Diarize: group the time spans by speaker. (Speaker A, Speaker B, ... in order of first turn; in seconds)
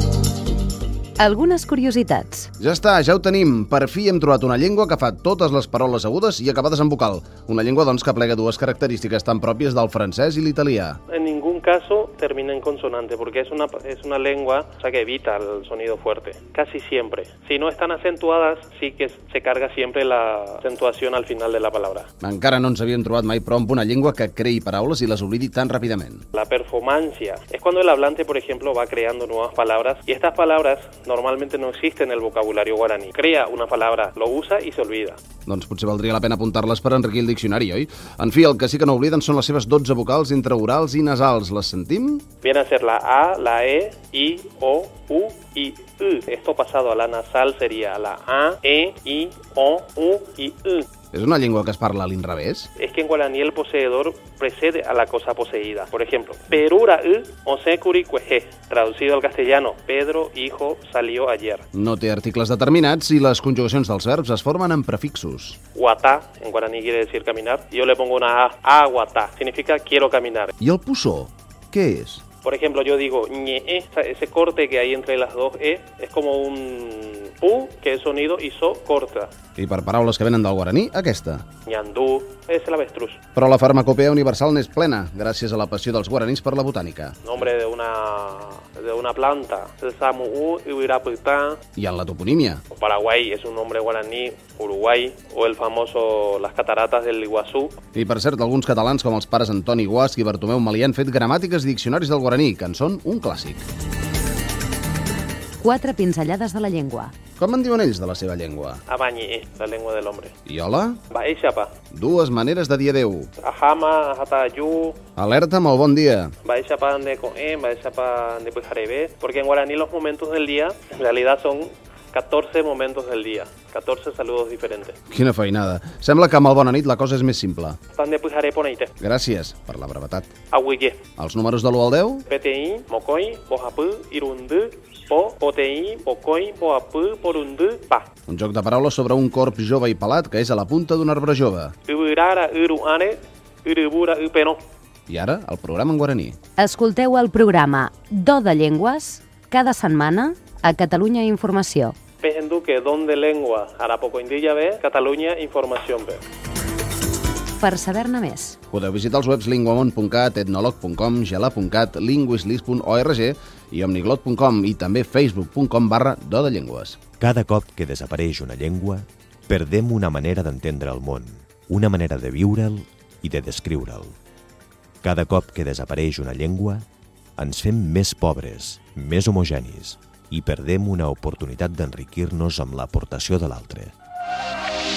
Speaker A: 1.2-2.5, 105.6-107.1, 146.6-152.0, 157.6-158.6
Speaker B: 2.6-11.0, 22.2-26.2, 35.5-42.2, 51.1-52.7, 61.7-65.6, 70.6-72.2, 79.6-81.4, 83.3-87.2, 91.8-92.6, 98.0-103.7, 107.4-108.8, 110.5-111.0, 111.9-113.3, 115.2-116.3, 125.1-127.8, 129.0-130.3, 131.2-132.3, 138.3-141.7, 145.1-146.4, 158.7-167.0
Speaker C: 11.1-22.1, 26.3-35.2, 42.4-50.9, 52.8-61.6, 65.8-70.5, 72.4-79.3, 81.7-83.2, 87.2-91.6, 92.7-97.8, 108.9-110.3, 111.1-111.7, 113.4-115.0, 116.4-125.0, 127.9-128.9, 130.5-131.0, 132.3-138.1, 141.9-144.6, 152.2-156.2
Speaker D: 167.2-174.2, 175.0-176.8, 177.4-183.9